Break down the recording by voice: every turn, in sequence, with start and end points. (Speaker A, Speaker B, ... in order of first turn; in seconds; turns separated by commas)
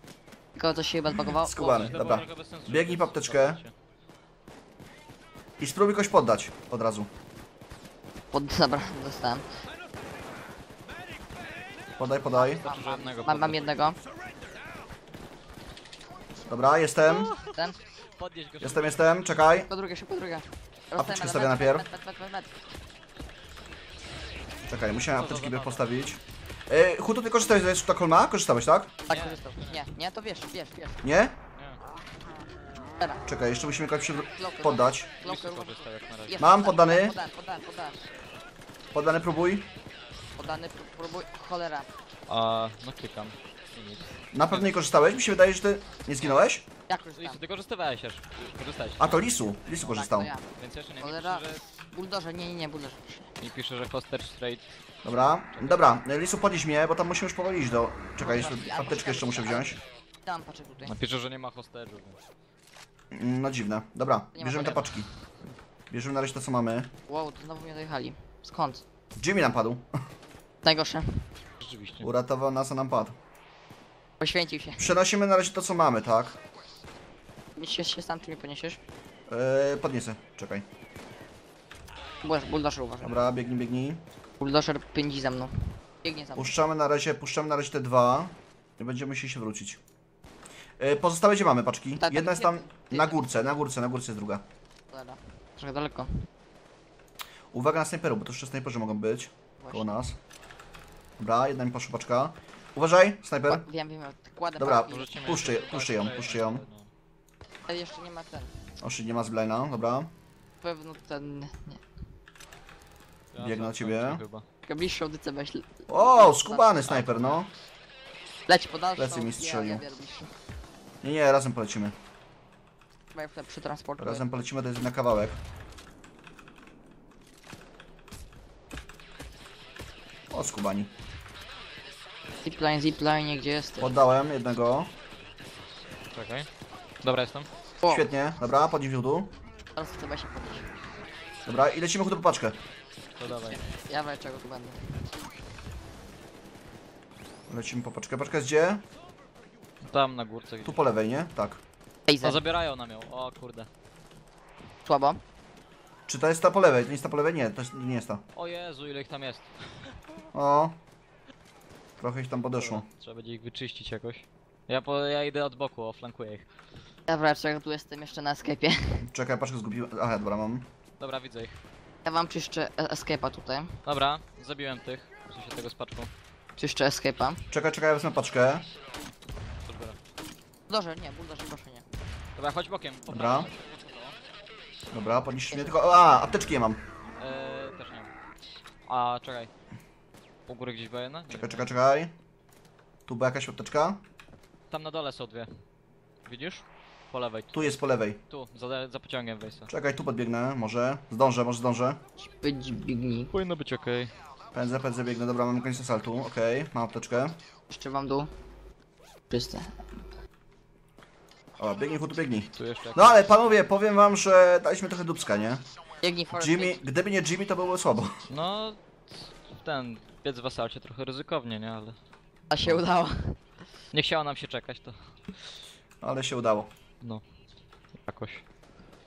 Speaker A: 0.5-1.9, Speaker B: 1.3-3.6, Speaker C: 1.6-3.7, Speaker B: 5.6-7.1, Speaker A: 8.3-9.4, Speaker B: 12.0-12.6, Speaker A: 12.3-14.0, Speaker C: 12.6-13.7, Speaker B: 16.4-17.3, Speaker C: 17.0-17.6, Speaker A: 17.5-17.8, Speaker C: 18.1-19.2, Speaker B: 18.6-19.7, Speaker A: 19.6-22.5, Speaker B: 21.0-21.9, Speaker B: 24.7-28.9, Speaker C: 25.1-26.0, Speaker A: 29.1-31.1, Speaker C: 29.1-29.8, Speaker B: 31.0-31.4, Speaker C: 31.5-31.8, Speaker A: 33.0-33.2, Speaker B: 33.2-35.1, Speaker A: 34.3-38.0, Speaker C: 35.2-36.4, Speaker B: 36.4-37.2, Speaker B: 38.9-39.7, Speaker A: 40.4-41.9, Speaker C: 42.3-44.7, Speaker B: 44.3-46.6, Speaker A: 46.9-47.4, Speaker C: 47.2-51.6, Speaker B: 49.0-50.3, Speaker A: 49.9-53.3, Speaker C: 53.4-55.9, Speaker B: 55.0-59.8, Speaker A: 58.2-60.9, Speaker C: 60.9-62.2, Speaker B: 63.1-65.1, Speaker A: 64.3-65.0, Speaker B: 65.9-66.9, Speaker A: 67.1-68.8, Speaker B: 69.2-69.9, Speaker A: 70.6-71.3, Speaker C: 71.6-72.1, Speaker B: 72.0-73.2, Speaker A: 74.2-74.9, Speaker B: 74.8-76.4, Speaker A: 77.5-78.8, Speaker B: 79.3-80.7, Speaker A: 82.2-83.3, Speaker B: 83.0-84.0, Speaker A: 84.4-86.6, Speaker B: 86.3-89.8, Speaker B: 90.8-94.4, Speaker A: 92.0-93.3, Speaker A: 94.9-96.2, Speaker B: 97.5-100.2, Speaker A: 99.6-100.0, Speaker B: 101.2-103.6, Speaker A: 103.5-105.2, Speaker B: 104.6-106.6, Speaker C: 104.8-106.9, Speaker A: 107.7-108.5, Speaker B: 108.8-110.1, Speaker A: 110.6-111.8, Speaker C: 113.3-114.4, Speaker B: 113.4-114.2, Speaker A: 114.6-116.9, Speaker B: 115.9-117.5, Speaker C: 116.8-117.4, Speaker A: 118.5-120.3, Speaker B: 119.0-119.8, Speaker B: 121.0-121.9, Speaker A: 123.1-124.3, Speaker B: 124.0-125.4, Speaker B: 130.3-130.9, Speaker A: 132.4-133.9, Speaker B: 133.8-134.9, Speaker C: 136.1-136.5, Speaker C: 137.0-137.5, Speaker B: 137.9-139.3, Speaker A: 139.7-140.8, Speaker B: 141.4-142.6, Speaker C: 143.2-143.6, Speaker A: 143.5-145.1, Speaker B: 147.5-148.8, Speaker C: 149.8-151.0, Speaker B: 150.6-151.6, Speaker A: 152.1-152.4, Speaker C: 152.2-153.7, Speaker A: 154.8-155.2, Speaker B: 156.1-158.2, Speaker C: 158.3-160.0, Speaker B: 160.3-160.7, Speaker B: 162.0-162.8, Speaker C: 162.6-166.5, Speaker A: 167.1-169.0, Speaker B: 169.0-170.7, Speaker C: 171.0-171.6, Speaker A: 172.0-173.8, Speaker C: 173.8-176.1, Speaker A: 176.6-177.5, Speaker B: 177.5-178.7, Speaker C: 179.6-180.0, Speaker A: 180.7-181.8, Speaker C: 182.3-184.2, Speaker B: 183.1-183.5, Speaker B: 184.9-186.8, Speaker A: 185.5-185.8, Speaker C: 187.2-188.1, Speaker C: 188.8-189.5, Speaker C: 190.5-191.7, Speaker B: 191.3-192.1, Speaker B: 193.1-194.0, Speaker C: 194.7-195.5, Speaker C: 196.2-199.7, Speaker B: 197.5-198.2, Speaker B: 199.7-202.0, Speaker A: 202.2-203.3, Speaker C: 203.3-204.1, Speaker B: 204.5-207.3, Speaker A: 207.7-208.3, Speaker A: 209.3-209.8, Speaker B: 211.6-215.6, Speaker C: 212.6-213.3, Speaker A: 216.0-216.8, Speaker B: 216.3-218.3, Speaker C: 218.3-221.9, Speaker A: 222.5-223.4, Speaker C: 223.9-225.2, Speaker B: 226.0-226.7, Speaker C: 228.0-228.4